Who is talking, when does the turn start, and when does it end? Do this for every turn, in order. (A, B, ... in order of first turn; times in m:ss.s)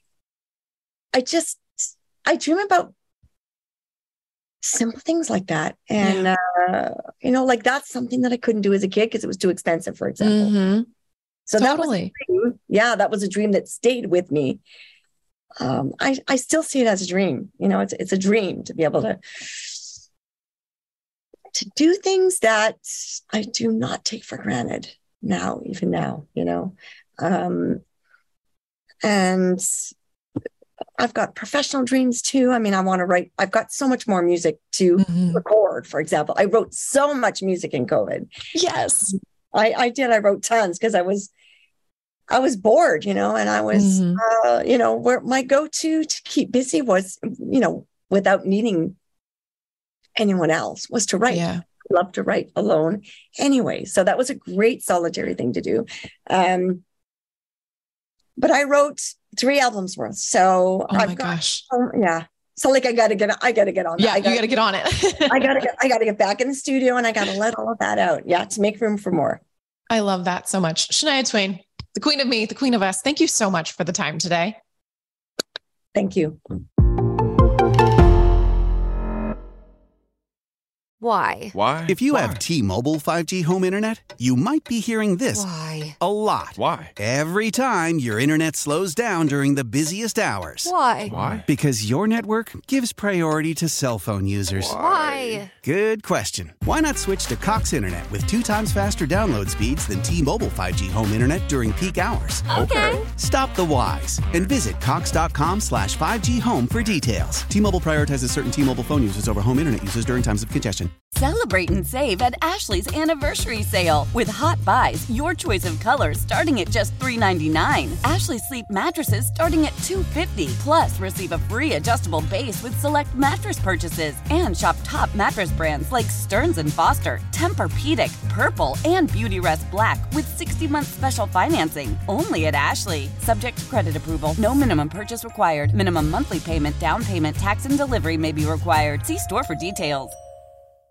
0:01.1-0:02.9 A
0:04.6-0:10.5 A
0:06.0-0:06.3 B
0:10.2-0:10.9 B
0:11.4-0:14.6 A
0:11.6-0:12.1 B
0:15.6-0:19.7 A
0:21.5-0:27.8 A
0:29.0-0:29.7 A
0:31.0-0:38.3 A
0:35.0-0:35.4 B
0:38.5-0:39.2 B
0:39.5-0:41.3 A
0:42.3-0:49.0 A
0:43.7-0:44.2 B
0:50.2-0:56.8 A
0:51.3-0:51.6 B
0:58.4-1:04.5 A
1:00.9-1:01.6 B
1:04.0-1:05.6 B
1:05.3-1:09.4 A
1:09.9-1:14.6 B
1:15.9-1:16.4 A
1:21.0-1:21.6 C
1:21.5-1:22.4 D
1:21.8-1:30.7 E
1:25.3-1:26.0 C
1:26.5-1:26.9 D
1:30.6-1:31.2 C
1:31.1-1:31.5 D
1:31.3-1:50.9 E
1:34.6-1:35.5 C
1:34.6-1:35.2 D
1:42.5-1:43.1 C
1:51.1-2:20.2 F